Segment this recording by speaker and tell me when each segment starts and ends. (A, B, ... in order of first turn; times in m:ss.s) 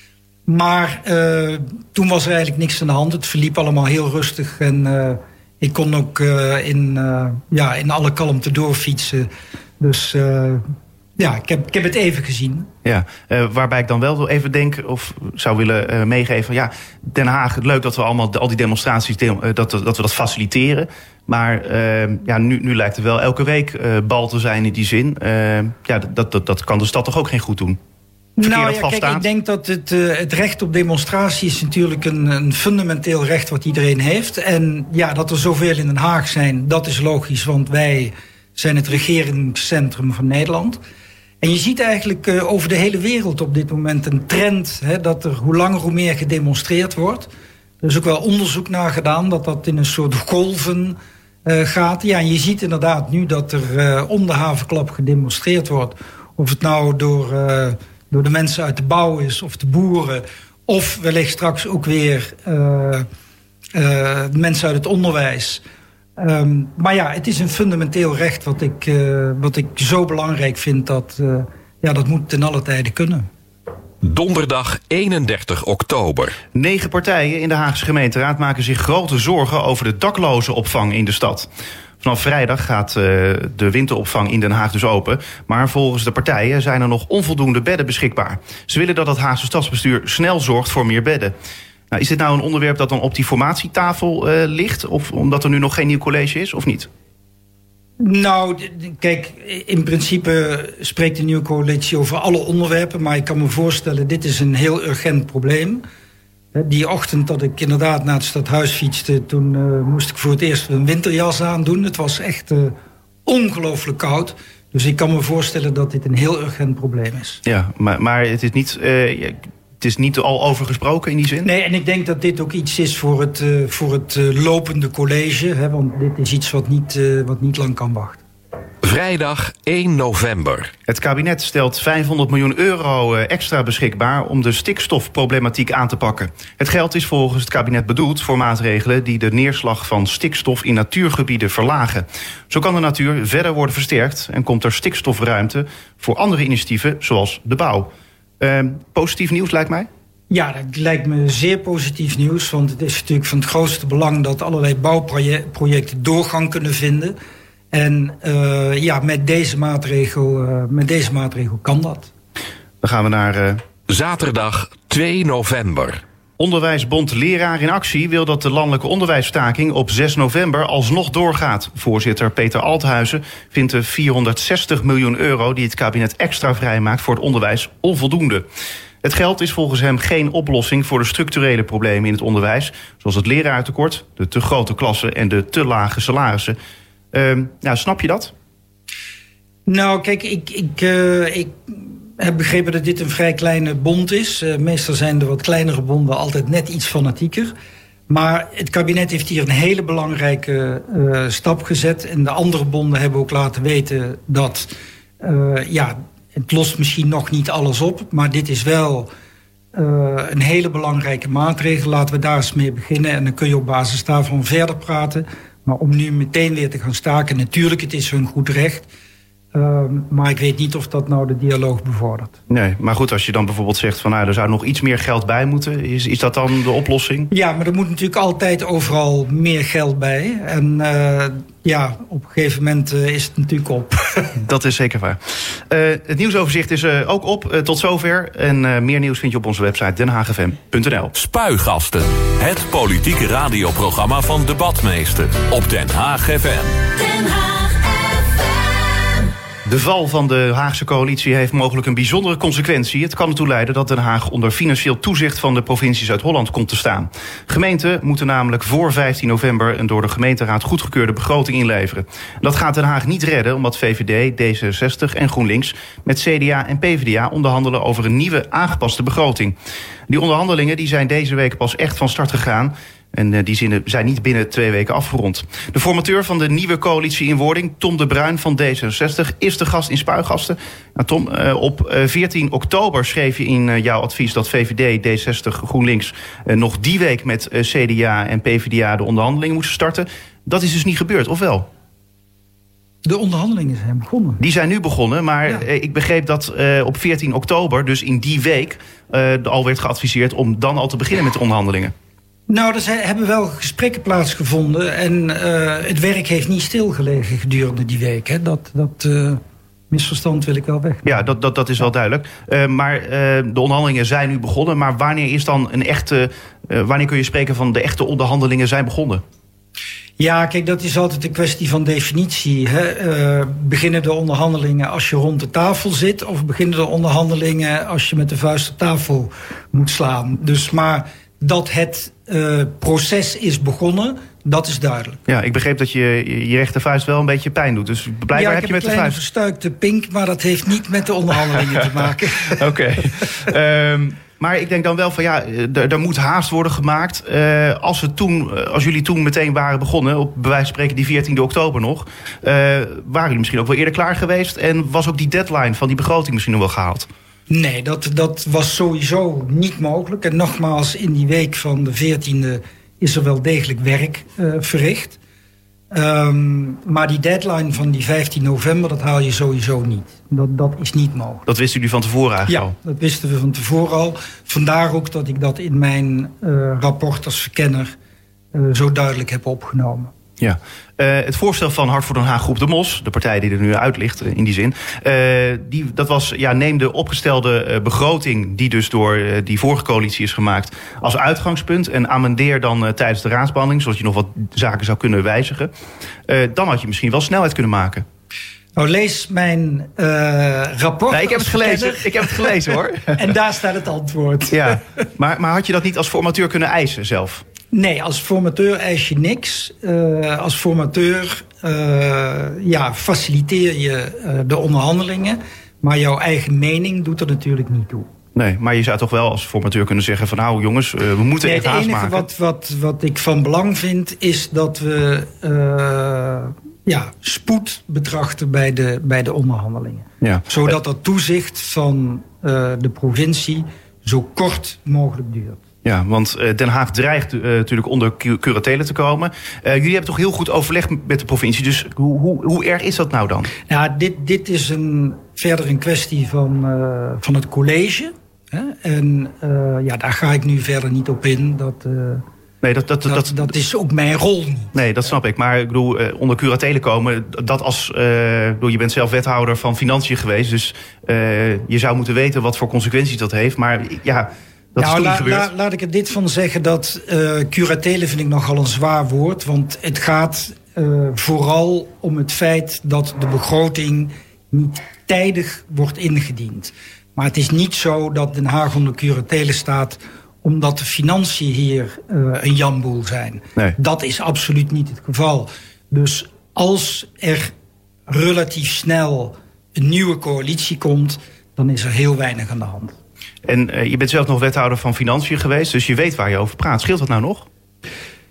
0:00.5-0:10.6 A
0:11.2-0:12.7 A
0:12.8-0:27.8 B
0:28.4-0:40.8 A
0:28.4-0:29.2 B
0:41.4-0:47.3 A
0:47.8-1:03.1 A
1:03.7-1:05.6 A
1:06.2-1:13.3 A
1:14.0-1:16.4 C
1:16.5-1:21.5 B
1:22.0-1:31.3 B
1:31.9-1:36.9 B
1:38.0-1:45.8 A
1:46.5-1:52.7 A
1:53.2-1:57.4 A
1:57.4-2:01.5 B
2:01.4-2:08.2 A
2:08.8-2:10.7 C
2:10.9-2:29.9 B
2:30.3-2:37.1 A
2:37.7-2:42.1 A
2:42.8-2:43.6 B
2:43.9-2:46.0 C
2:46.4-2:58.4 B
2:59.0-3:06.6 B
3:07.1-3:08.3 B
3:09.6-3:17.5 A
3:18.1-3:29.1 A
3:29.7-3:38.9 A
3:39.5-3:42.4 A
3:42.5-3:47.3 B
3:47.3-3:54.3 A
3:54.4-4:01.1 B
4:01.1-4:08.8 C
4:09.6-4:29.6 B
4:30.1-4:51.7 B
4:53.0-4:54.4 A
4:54.4-5:01.9 B
5:02.5-5:11.2 A
5:11.0-5:19.2 B
5:20.2-5:35.2 A
5:35.3-5:39.2 B
5:38.3-5:42.6 A
5:42.5-5:57.1 B
5:57.5-6:05.2 A
6:05.9-6:11.4 A
6:11.5-6:12.7 B
6:12.5-6:17.9 A
6:18.5-6:20.1 A
6:20.4-6:35.7 B
6:36.3-6:38.0 B
6:38.8-6:42.6 A
6:41.1-6:43.3 B
6:43.1-6:44.8 A
6:44.5-6:47.4 B
6:47.7-6:58.1 A
6:58.3-7:02.2 B
7:01.4-7:15.6 A
7:10.2-7:10.4 B
7:15.8-7:23.5 B
7:23.7-7:32.2 A
7:32.6-7:33.5 B
7:33.0-7:34.7 A
7:34.7-7:45.5 B
7:44.8-8:07.5 A
8:08.1-8:13.0 A
8:13.4-8:17.5 B